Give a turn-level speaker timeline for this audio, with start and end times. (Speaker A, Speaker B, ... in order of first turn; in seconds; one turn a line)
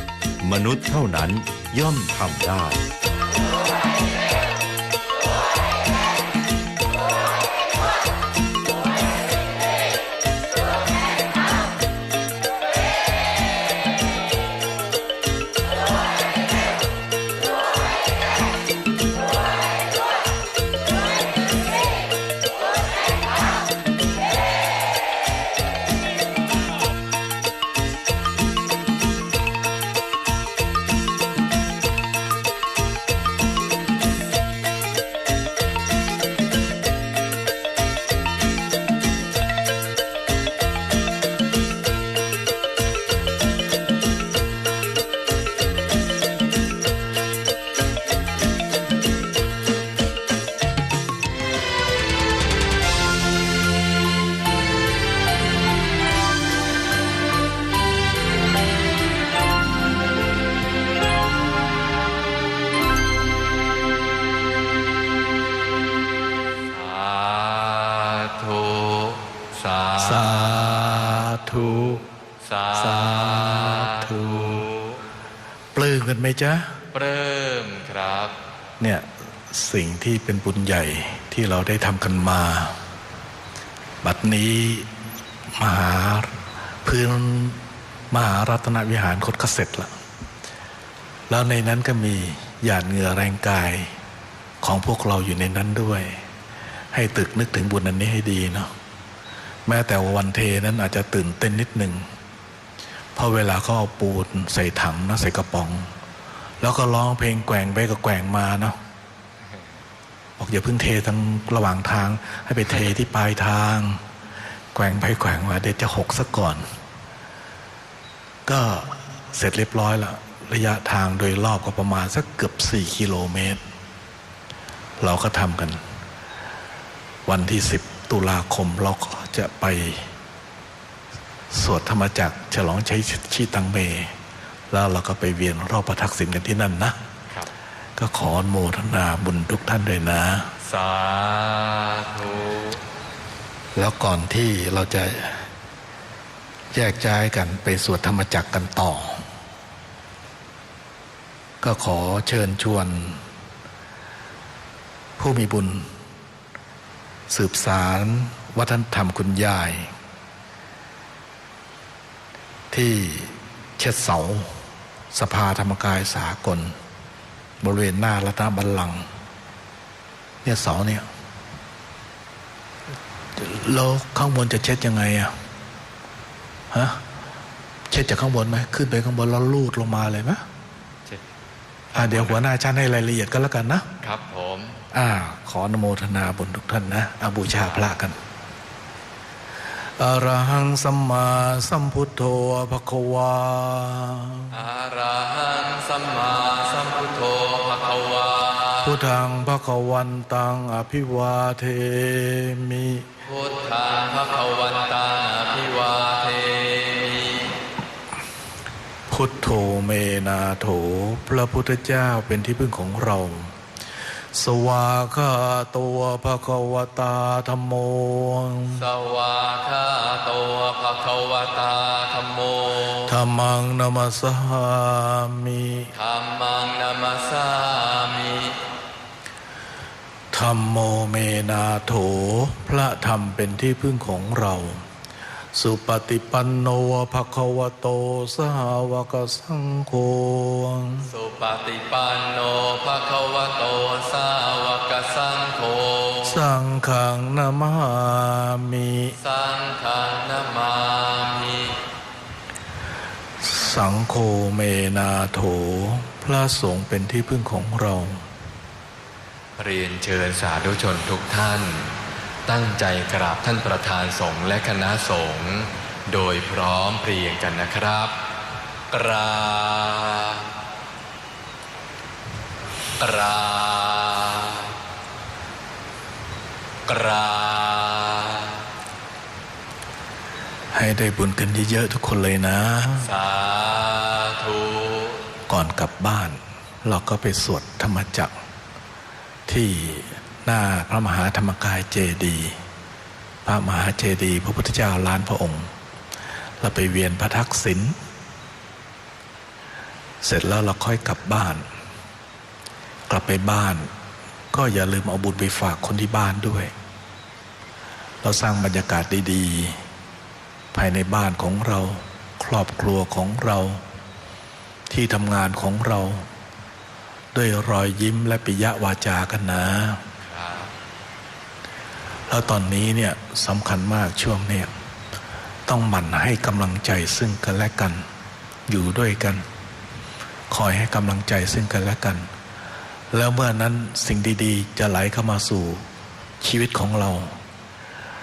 Speaker A: 0.4-2.8
Speaker B: 66.7-70.6
Speaker C: 70.0-72.0
Speaker B: 72.4-75.0
Speaker C: 72.7-74.6
Speaker C: 75.7-76.7
Speaker B: 76.9-78.4
Speaker C: 78.8-82.8
Speaker C: 84.0-84.9
Speaker C: 85.6-89.9
Speaker C: 91.3-93.9
Speaker C: 94.6-96.2
Speaker C: 96.9-98.7
Speaker C: 99.7-102.0
Speaker C: 103.1-105.9
Speaker C: 106.6-108.8
Speaker C: 110.4-114.0
Speaker C: 114.7-116.6
Speaker C: 118.5-123.6
Speaker C: 125.0-125.8
Speaker C: 127.2-130.1
Speaker C: 131.5-134.1
Speaker C: 134.7-136.9
Speaker C: 138.0-140.5
Speaker B: 140.6-142.8
Speaker C: 143.8-145.5
Speaker C: 146.7-149.2
Speaker C: 151.6-153.2
Speaker C: 155.2-155.9
Speaker C: 157.3-159.9
Speaker C: 162.7-164.5
Speaker C: 165.1-166.7
Speaker C: 167.6-169.1
Speaker C: 170.4-171.1
Speaker C: 173.3-175.3
Speaker C: 176.7-177.0
Speaker C: 177.9-180.4
Speaker B: 181.9-182.4
Speaker C: 181.9-183.9
Speaker B: 184.0-184.8
Speaker C: 184.9-188.2
Speaker B: 187.5-187.9
Speaker C: 190.0-194.5
Speaker B: 194.5-199.0
Speaker C: 198.8-203.1
Speaker B: 203.2-207.5
Speaker C: 209.1-213.5
Speaker C: 214.3-218.9
Speaker B: 218.7-223.1
Speaker C: 223.0-225.9
Speaker B: 225.9-228.6
Speaker C: 230.3-234.8
Speaker C: 235.5-241.1
Speaker B: 241.0-246.4
Speaker C: 246.2-249.2
Speaker B: 249.2-251.8
Speaker C: 253.4-258.2
Speaker B: 259.6-268.2
Speaker B: 268.9-270.5
Speaker B: 273.0-274.8
Speaker B: 276.9-278.7
Speaker C: 280.7-283.1
Speaker B: 283.0-285.2
Speaker C: 285.5-288.3
Speaker C: 289.5-292.6
Speaker C: 293.4-295.7
Speaker C: 296.6-297.9
Speaker C: 300.2-301.6
Speaker C: 303.1-303.9
Speaker C: 304.5-306.7
Speaker C: 308.2-309.8
Speaker C: 310.7-313.8
Speaker C: 314.9-316.3
Speaker C: 317.3-320.0
Speaker B: 320.2-320.7
Speaker C: 322.3-324.7
Speaker C: 325.7-328.1
Speaker C: 328.7-329.4
Speaker C: 330.5-332.3
Speaker C: 333.1-335.8
Speaker C: 336.4-337.4